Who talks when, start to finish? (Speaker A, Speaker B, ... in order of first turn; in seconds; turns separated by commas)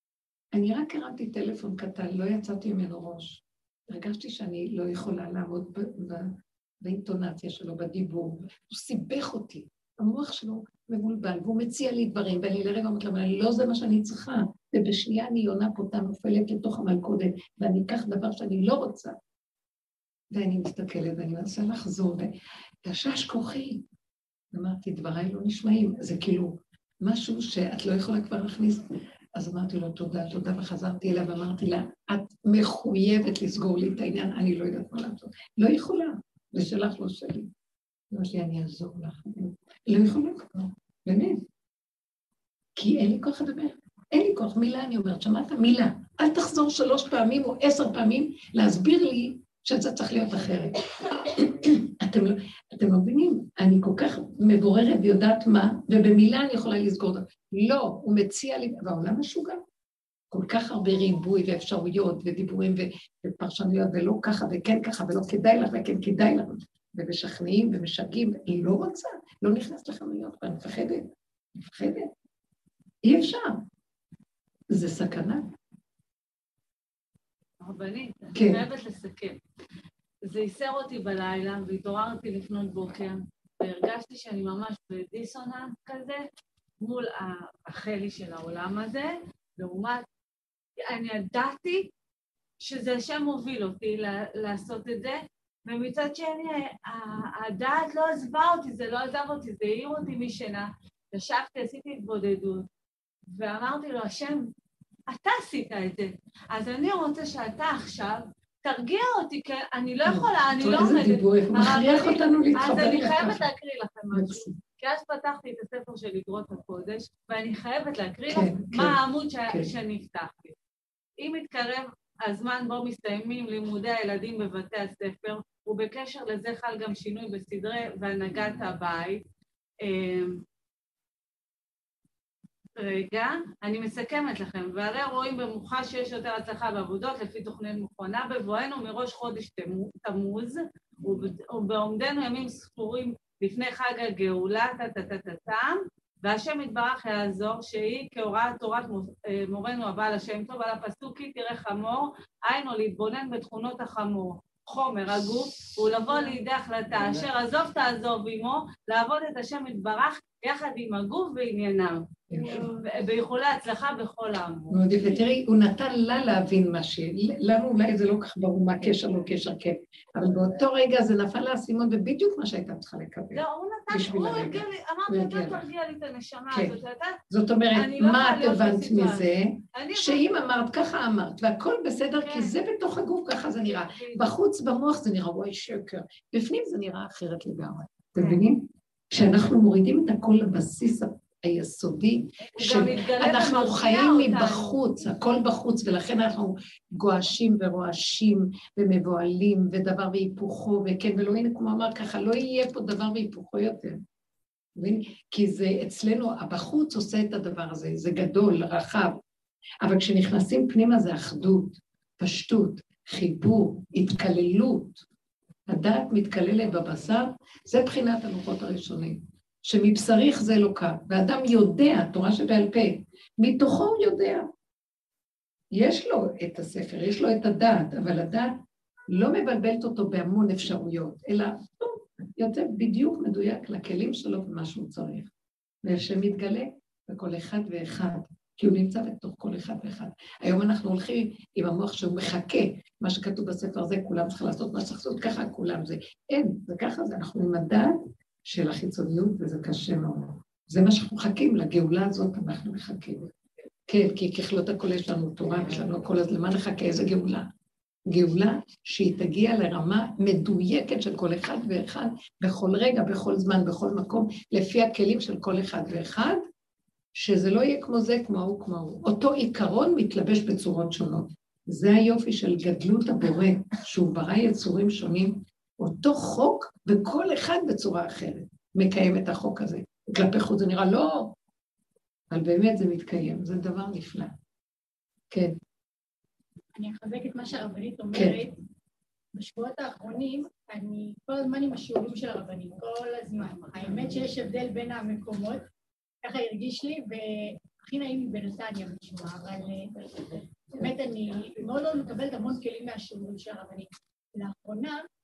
Speaker A: 0.5-19.1, Speaker A: 20.3-23.8, Speaker A: 24.5-37.5, Speaker A: 38.1-41.4, Speaker A: 42.8-59.6, Speaker A: 60.3-71.1, Speaker A: 71.6-72.1, Speaker A: 73.0-73.6, Speaker A: 74.7-75.5, Speaker B: 77.6-79.4, Speaker A: 78.3-78.6, Speaker B: 80.2-86.3, Speaker B: 86.8-90.0, Speaker B: 90.8-91.9, Speaker B: 92.6-102.7, Speaker B: 103.3-104.5, Speaker B: 105.1-120.5, Speaker A: 110.0-113.4, Speaker A: 114.1-114.5, Speaker A: 118.3-119.7, Speaker B: 121.2-129.2, Speaker B: 129.8-130.4, Speaker B: 132.8-164.8, Speaker A: 162.3-162.7, Speaker A: 164.7-175.7, Speaker B: 173.3-177.2, Speaker A: 176.5-176.8, Speaker A: 177.3-204.0, Speaker B: 177.7-180.3, Speaker B: 182.2-182.6, Speaker B: 183.6-184.2, Speaker B: 192.5-194.8, Speaker A: 204.8-209.2, Speaker A: 209.8-215.0, Speaker A: 215.7-224.5, Speaker A: 225.7-228.6, Speaker A: 229.1-235.3, Speaker A: 235.8-253.3, Speaker A: 253.9-257.5, Speaker A: 258.1-266.4, Speaker A: 267.1-281.3, Speaker A: 282.3-284.3, Speaker C: 286.8-288.5, Speaker A: 288.1-288.4, Speaker C: 289.3-295.6, Speaker C: 296.2-305.0